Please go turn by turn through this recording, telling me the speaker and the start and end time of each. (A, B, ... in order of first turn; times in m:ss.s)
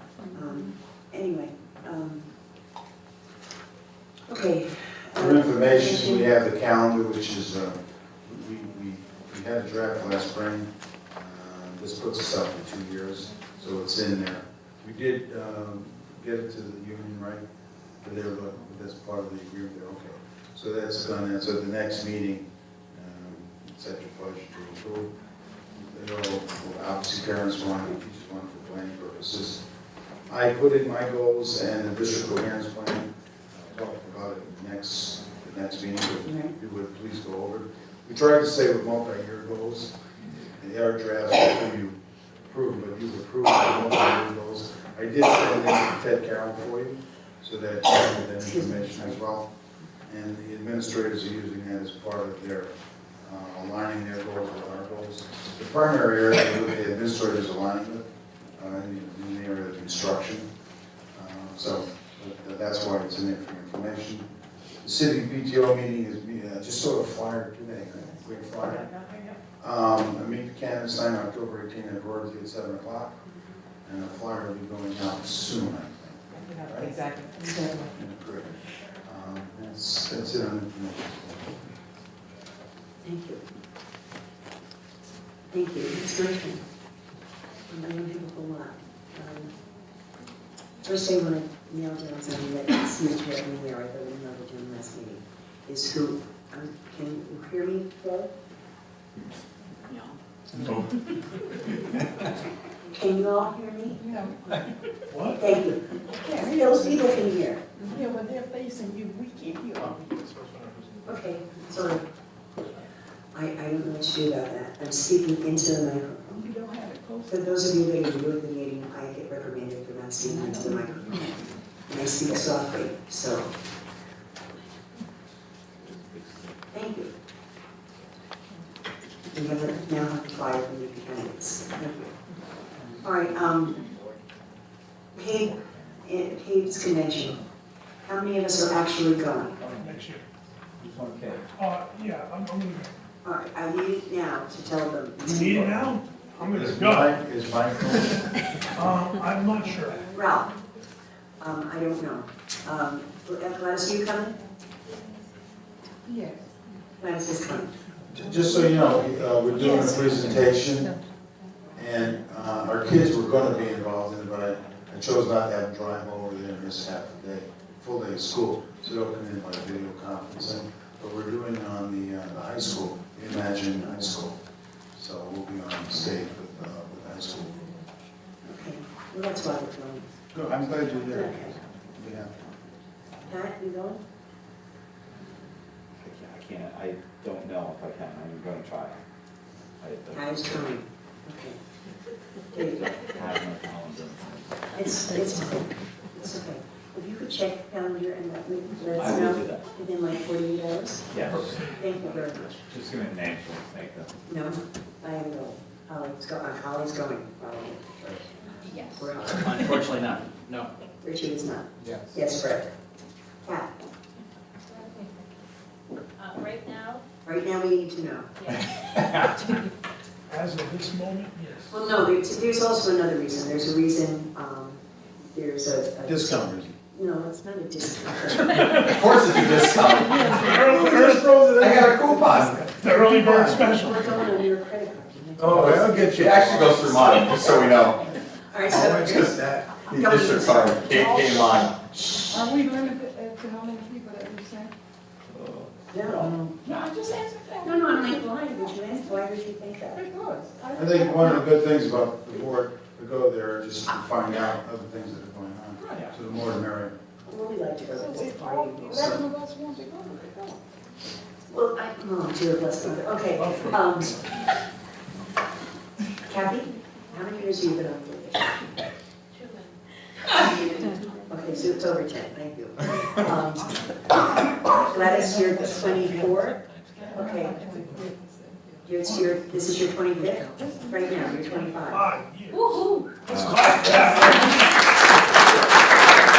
0:00.3-0:02.2 A
0:04.3-0:06.3 A
0:05.2-0:17.4 B
0:18.0-0:25.1 B
0:25.8-0:29.6 B
0:30.3-0:40.0 B
0:36.2-0:36.5 A
0:40.6-0:49.5 B
0:48.4-0:49.2 A
0:50.1-0:52.7 B
0:53.2-0:58.0 B
0:58.6-1:00.4 B
1:01.1-1:04.3 B
1:04.8-1:08.9 B
1:09.6-1:13.2 B
1:13.8-1:17.0 B
1:16.9-1:17.9 C
1:17.9-1:21.6 B
1:23.0-1:23.4 A
1:25.5-1:26.6 A
1:27.7-1:29.5 A
1:30.8-1:38.3 A
1:42.9-1:44.0 A
1:44.0-1:44.6 C
1:45.1-1:45.4 D
1:45.3-1:47.6 A
1:46.1-1:47.0 C
1:47.8-1:50.2 C
1:50.0-1:51.0 D
1:51.0-1:52.0 A
1:53.3-1:56.4 A
1:56.3-1:57.3 C
1:57.3-2:01.3 A
2:00.3-2:01.4 C
2:01.9-2:03.5 A
2:05.8-2:06.6 E
2:06.7-2:07.1 A
2:09.3-2:12.1 A
2:13.0-2:13.8 A
2:15.1-2:17.4 A
2:15.6-2:15.9 E
2:18.0-2:19.6 A
2:19.6-2:19.9 E
2:19.7-2:20.2 D
2:20.8-2:21.5 E
2:21.5-2:22.9 D
2:23.2-2:25.8 A
2:25.2-2:27.1 D
2:26.5-2:28.3 B
2:28.7-2:30.1 D
2:30.1-2:30.5 A
2:31.4-2:34.4 A
2:36.0-2:36.5 C
2:37.0-2:37.7 A
2:38.1-2:41.0 B
2:38.2-2:38.9 C
2:39.6-2:40.0 C
2:39.7-2:40.0 A
2:41.8-2:54.4 B
2:55.0-2:57.8 B
2:58.4-3:00.1 A
3:00.3-3:01.4 B
3:01.0-3:01.6 A
3:01.9-3:02.4 B
3:03.2-3:04.0 A
3:06.0-3:09.0 E
3:09.8-3:10.6 E
3:10.1-3:11.6 A
3:12.5-3:13.0 A
3:12.7-3:14.9 E
3:14.8-3:22.4 A
3:19.0-3:19.6 E
3:21.1-3:24.1 E
3:21.4-3:21.7 D
3:24.3-3:29.8 A
3:28.6-3:29.1 F
3:29.4-3:30.7 E
3:31.0-3:32.7 A
3:31.8-3:32.1 E
3:33.4-3:33.7 A
3:34.7-3:35.1 F
3:36.2-3:37.0 F
3:37.2-3:38.3 A
3:38.9-3:39.3 E
3:40.3-3:41.8 D
3:41.7-3:49.0 A
3:46.0-3:46.8 B
3:48.6-3:51.7 D
3:48.7-3:50.4 E
3:50.5-3:53.8 B
3:51.6-3:52.6 E
3:52.5-3:54.1 D
3:53.5-3:56.0 A
3:55.4-3:57.2 B
3:55.5-3:58.0 E
3:58.5-4:02.3 A
3:58.7-4:01.7 E
3:59.1-3:59.6 B
4:00.8-4:01.6 C
4:02.3-4:04.7 C
4:05.3-4:06.2 E
4:05.9-4:06.3 A
4:06.1-4:06.6 B
4:06.6-4:08.2 C
4:07.6-4:10.0 A
4:09.9-4:11.3 C
4:10.7-4:16.9 B
4:17.2-4:19.3 A
4:17.9-4:20.6 C
4:21.5-4:24.2 A
4:23.4-4:24.3 D
4:26.2-4:28.7 A
4:29.3-4:29.8 F
4:30.3-4:31.4 F
4:30.3-4:36.6 A
4:35.2-4:36.0 C
4:35.6-4:37.4 E
4:37.0-4:38.6 C
4:37.1-4:37.8 A
4:38.8-4:42.1 A
4:39.0-4:39.4 D
4:40.2-4:41.8 C
4:41.8-4:44.8 D
4:42.5-4:43.0 F
4:43.3-4:43.8 E
4:43.8-4:44.3 A